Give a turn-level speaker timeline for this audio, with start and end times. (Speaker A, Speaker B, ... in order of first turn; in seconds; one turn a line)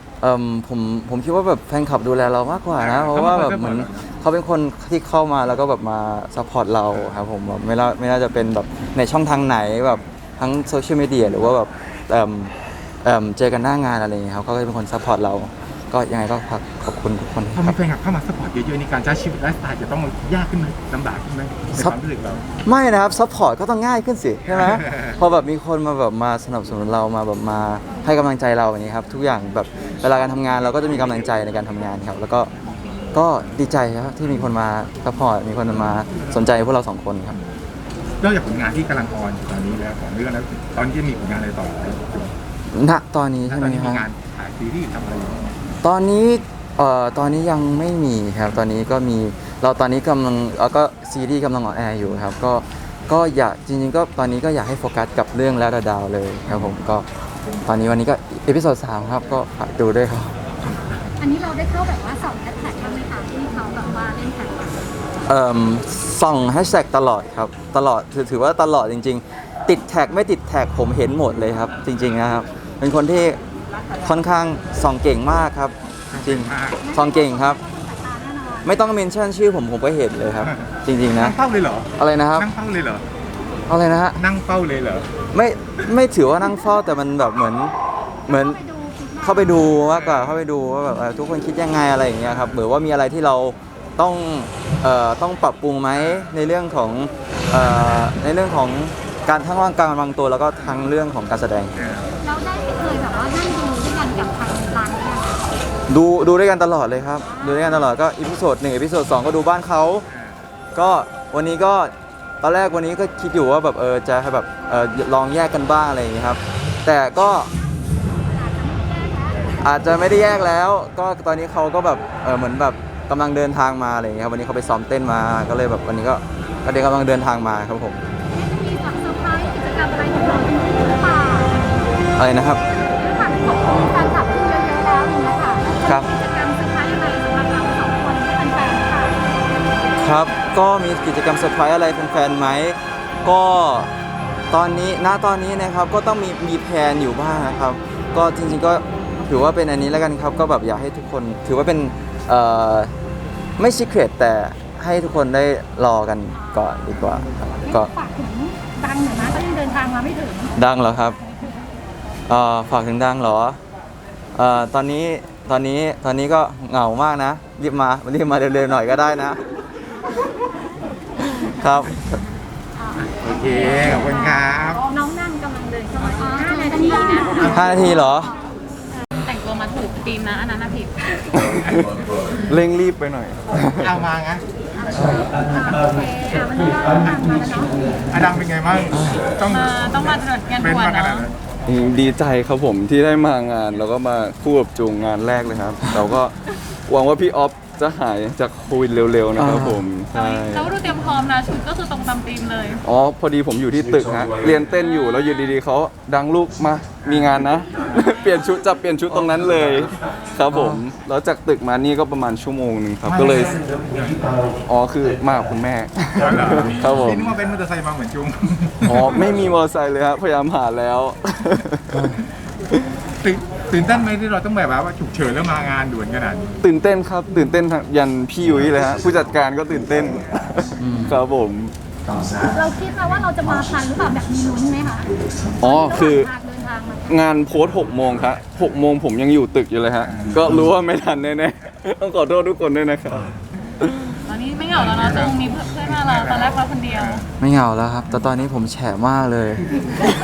Speaker A: 0.2-12.5
Speaker B: 2.8-4.1
Speaker A: 13.0-17.8
Speaker B: 17.6-22.4
Speaker A: 22.6-32.5
Speaker B: 24.5-25.1
Speaker A: 33.1-37.4
Speaker B: 38.2-42.3
Speaker A: 42.7-44.1
Speaker B: 43.5-45.5
Speaker A: 45.8-57.1
Speaker A: 57.6-60.4
Speaker C: 61.2-64.8
Speaker A: 65.3-73.4
Speaker A: 74.0-77.6
Speaker B: 76.1-76.8
Speaker C: 76.8-78.8
Speaker A: 78.6-81.4
Speaker B: 81.2-83.1
Speaker A: 82.0-82.5
Speaker A: 83.7-84.2
Speaker B: 84.2-85.1
Speaker A: 85.3-87.7
Speaker A: 88.3-88.6
Speaker C: 88.3-89.8
Speaker A: 89.2-101.8
Speaker B: 90.1-90.4
Speaker B: 101.8-102.1
Speaker C: 102.2-105.5
Speaker A: 105.9-110.1
Speaker C: 107.2-107.8
Speaker B: 110.1-110.4
Speaker A: 110.8-117.5
Speaker C: 118.2-119.4
Speaker A: 119.6-128.0
Speaker C: 128.3-131.6
Speaker A: 132.2-132.6
Speaker C: 132.7-139.2
Speaker A: 135.8-136.1
Speaker A: 140.0-143.9
Speaker A: 144.5-152.9
Speaker A: 153.6-157.9
Speaker C: 156.3-156.6
Speaker C: 157.7-160.6
Speaker A: 160.6-161.2
Speaker A: 162.3-163.6
Speaker A: 164.3-169.4
Speaker A: 171.4-172.2
Speaker C: 172.8-178.3
Speaker B: 173.2-174.8
Speaker A: 177.4-178.3
Speaker D: 179.2-180.9
Speaker E: 181.3-181.9
Speaker E: 182.5-184.0
Speaker B: 183.8-184.4
Speaker C: 184.8-187.8
Speaker A: 184.9-185.4
Speaker B: 188.1-190.0
Speaker A: 188.9-189.3
Speaker D: 189.5-191.3
Speaker B: 190.6-191.3
Speaker E: 191.7-196.3
Speaker E: 196.9-200.7
Speaker A: 199.4-199.8
Speaker D: 200.1-202.8
Speaker E: 202.8-213.6
Speaker D: 204.8-205.6
Speaker B: 207.0-207.6
Speaker A: 210.5-210.8
Speaker B: 213.0-214.3
Speaker E: 214.7-217.3
Speaker B: 216.2-219.3
Speaker E: 218.8-222.1
Speaker A: 221.9-222.2
Speaker B: 223.2-226.6
Speaker E: 226.6-231.7
Speaker A: 230.8-231.1
Speaker C: 232.5-237.2
Speaker E: 235.6-236.3
Speaker E: 237.1-244.2
Speaker B: 240.0-240.4
Speaker D: 244.3-247.2
Speaker B: 245.0-247.2
Speaker A: 247.4-249.9